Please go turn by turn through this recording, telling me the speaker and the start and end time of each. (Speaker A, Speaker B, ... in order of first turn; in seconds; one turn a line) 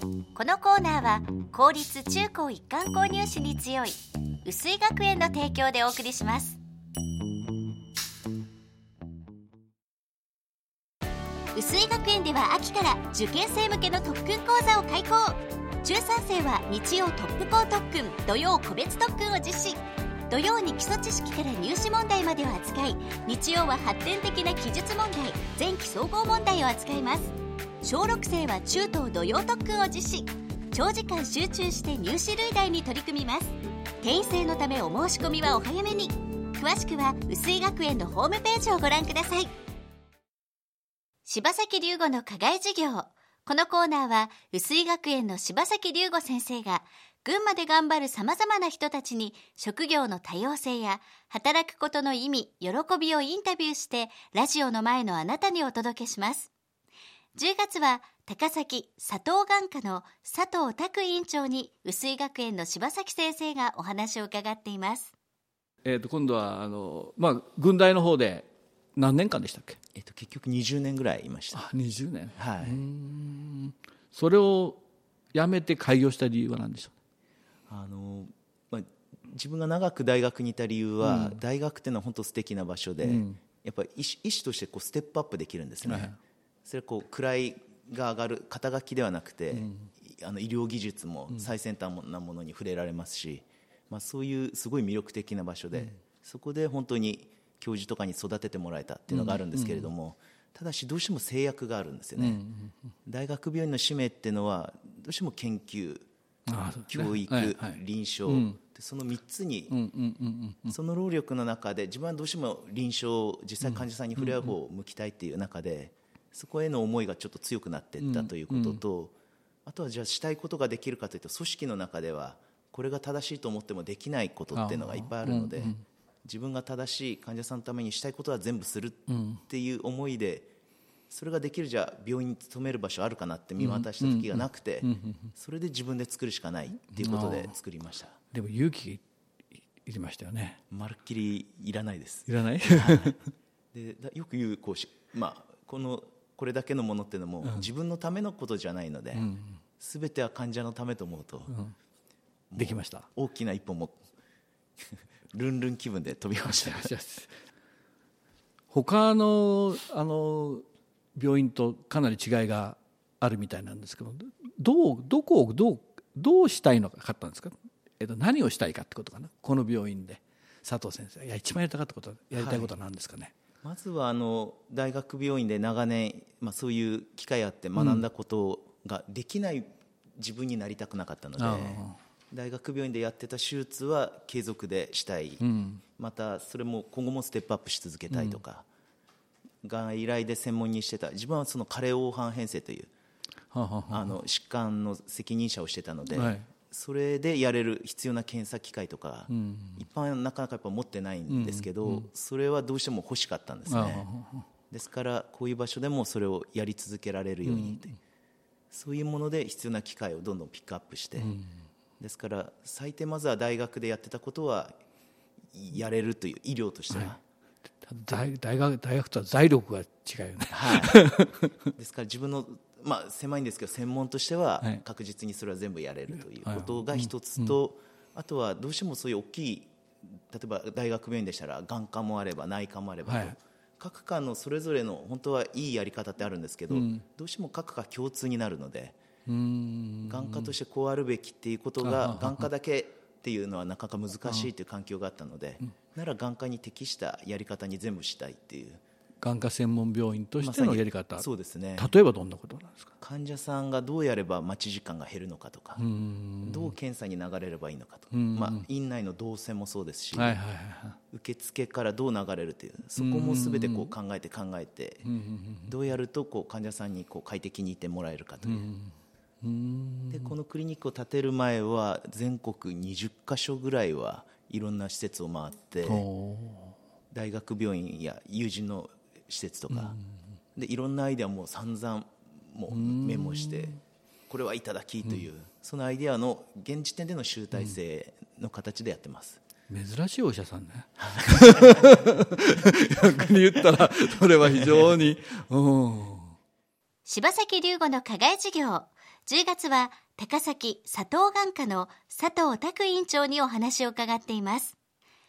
Speaker A: 0.3-6.6
Speaker A: 11.5-39.5
Speaker A: 41.3-56.5
Speaker A: 57.4-65.1
Speaker B: 65.8-69.8
Speaker C: 70.0-71.6
Speaker B: 71.5-74.8
Speaker C: 72.4-72.8
Speaker B: 75.3-76.9
Speaker C: 77.7-86.1
Speaker B: 81.0-81.4
Speaker B: 83.0-83.4
Speaker B: 85.8-86.2
Speaker C: 86.7-102.4
Speaker B: 89.5-89.9
Speaker B: 99.1-99.9
Speaker B: 102.2-102.8
Speaker C: 103.1-106.1
Speaker B: 106.5-108.6
Speaker C: 106.9-109.8
Speaker B: 109.7-110.8
Speaker C: 110.7-119.2
Speaker B: 113.6-114.5
Speaker B: 118.0-118.8
Speaker C: 119.7-125.7
Speaker B: 124.5-125.8
Speaker C: 126.3-130.5
Speaker B: 129.1-129.4
Speaker C: 131.1-138.2
Speaker B: 133.6-135.3
Speaker B: 136.9-137.6
Speaker B: 138.3-139.0
Speaker B: 139.8-140.6
Speaker C: 140.7-143.2
Speaker B: 142.3-143.2
Speaker C: 143.7-149.3
Speaker B: 149.2-149.6
Speaker C: 149.8-151.5
Speaker B: 151.5-151.8
Speaker C: 152.5-154.0
Speaker B: 152.6-153.1
Speaker C: 154.9-156.9
Speaker B: 156.5-157.3
Speaker B: 158.7-173.3
Speaker C: 172.3-172.7
Speaker C: 173.6-185.4
Speaker B: 177.8-178.1
Speaker B: 181.4-182.0
Speaker B: 185.4-185.8
Speaker C: 186.0-188.7
Speaker B: 188.1-188.4
Speaker C: 189.6-192.9
Speaker B: 193.5-194.2
Speaker C: 193.9-204.1
Speaker B: 196.1-196.5
Speaker B: 199.3-199.8
Speaker B: 201.3-202.1
Speaker B: 203.7-204.5
Speaker C: 204.7-207.9
Speaker B: 207.4-208.0
Speaker C: 208.7-211.3
Speaker B: 211.2-211.5
Speaker C: 212.0-214.8
Speaker C: 215.5-217.2
Speaker B: 216.9-217.2
Speaker B: 217.8-221.5
Speaker C: 220.5-221.0
Speaker C: 221.8-229.7
Speaker B: 226.2-227.6
Speaker C: 230.3-239.0
Speaker B: 233.1-233.4
Speaker B: 236.7-237.1
Speaker B: 239.3-240.5
Speaker C: 240.1-248.8
Speaker B: 241.8-242.5
Speaker B: 249.2-252.9
Speaker C: 250.4-251.9
Speaker C: 253.0-255.8
Speaker B: 255.8-256.7
Speaker C: 256.4-260.4
Speaker B: 258.1-258.6
Speaker B: 260.1-261.0
Speaker C: 261.1-265.1
Speaker B: 263.0-263.9
Speaker B: 265.1-265.7
Speaker C: 265.7-268.7
Speaker B: 268.4-270.3
Speaker C: 270.1-276.1
Speaker B: 275.8-276.8
Speaker C: 277.1-280.0
Speaker B: 279.7-280.0
Speaker C: 280.6-283.8
Speaker B: 282.7-283.8
Speaker C: 284.3-289.4
Speaker B: 289.7-296.4
Speaker C: 291.0-292.0
Speaker A: 297.1-304.8